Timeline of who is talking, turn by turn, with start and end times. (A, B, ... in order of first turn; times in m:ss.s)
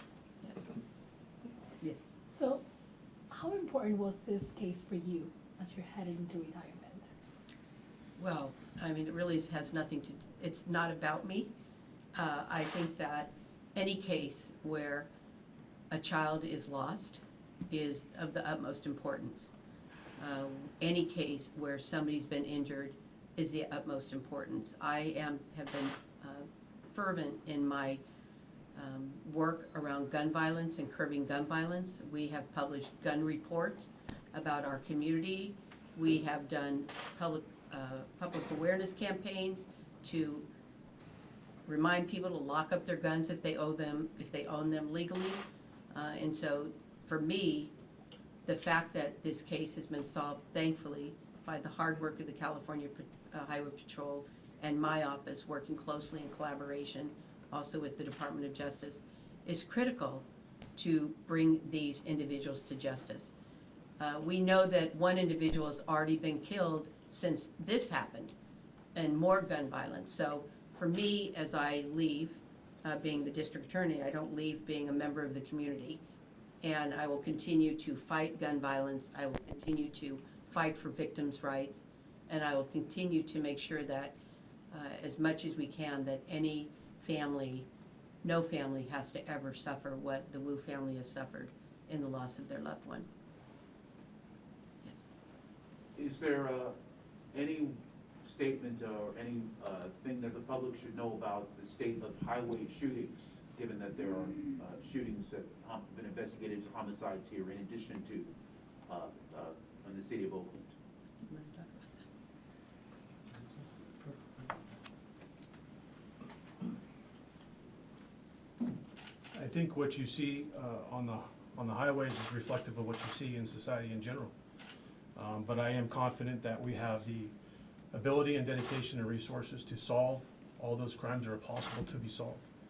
0:00.4-0:00.8 A
0:02.3-0:02.6 B
0:03.3-0:07.1 B
0:08.2-0:11.5 A
0:12.2-0:15.1 A
0:15.9-0:19.5 A
0:20.2-0:28.0 A
0:28.8-0:40.5 A
0:41.7-0:47.7 A
0:48.5-1:03.3 A
1:04.0-1:08.3 A
1:09.0-1:16.0 A
1:16.6-1:24.2 A
1:24.7-1:27.7 A
1:28.2-1:33.1 A
1:34.8-1:35.1 A
1:36.0-1:36.8 C
1:37.3-1:48.3 C
1:48.9-1:50.7 C
1:51.2-1:52.0 A
1:59.3-2:04.4 D
2:05.2-2:07.3 D
2:07.9-2:12.4 D